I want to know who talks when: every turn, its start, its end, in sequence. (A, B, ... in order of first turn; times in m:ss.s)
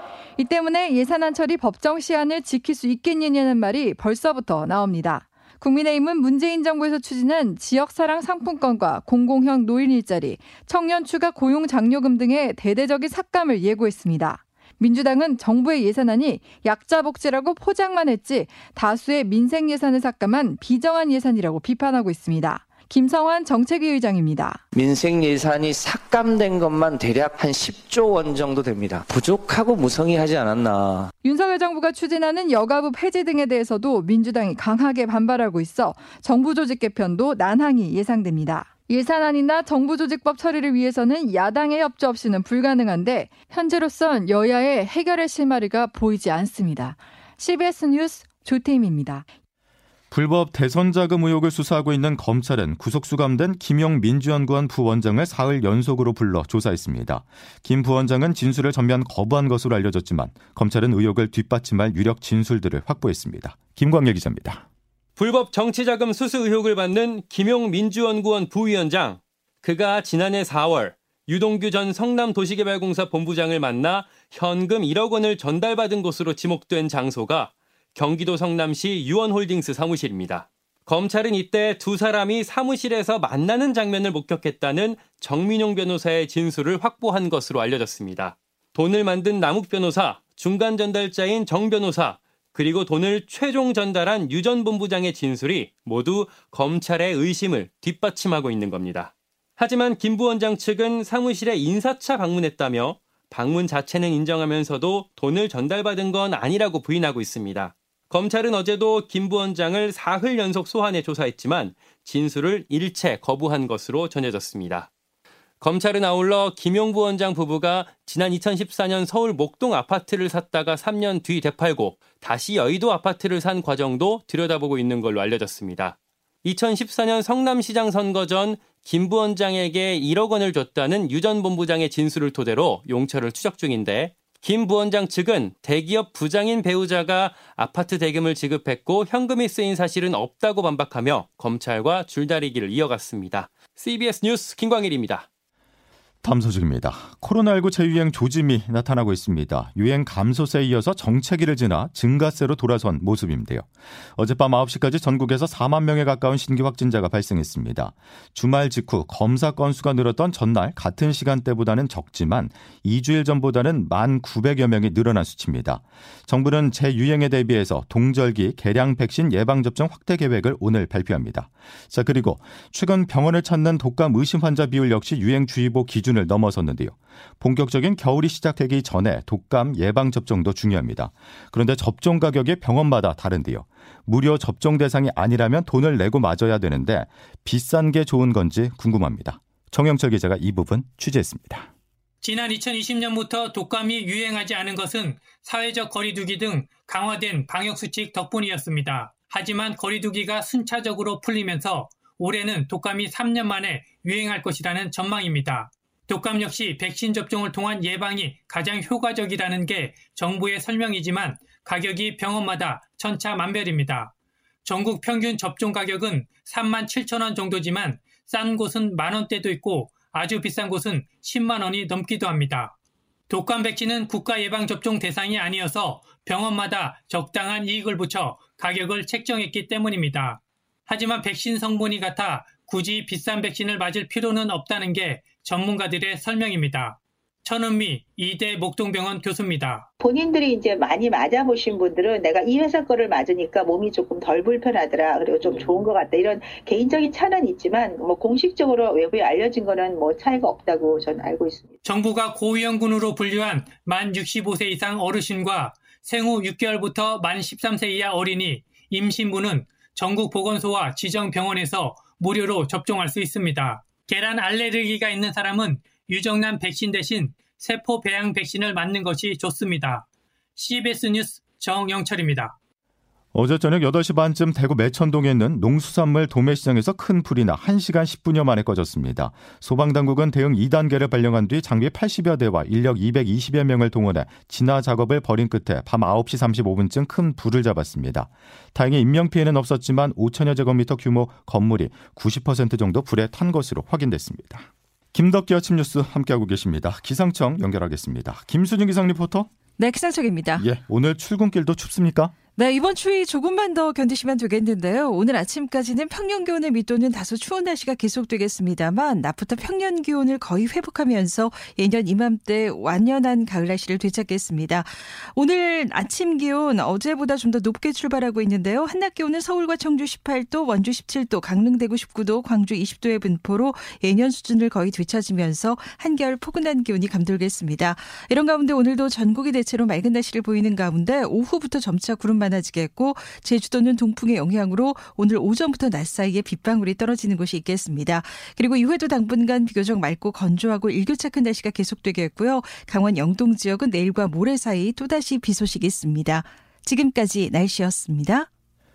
0:00.4-0:24.6 A
0:24.7-0:31.1 B
0:31.2-0:49.2 A
0:50.1-1:04.6 C
1:05.2-1:54.9 D
1:55.6-2:25.2 D
2:26.2-3:11.7 C
3:12.2-3:34.1 E
3:34.6-3:42.7 E
3:43.3-3:59.9 E
4:00.0-4:11.7 F
4:11.8-4:30.0 E
4:30.6-4:32.5 E
4:33.3-4:59.5 C
4:59.8-5:00.6 G
5:00.6-5:02.4 C
5:02.6-5:48.4 G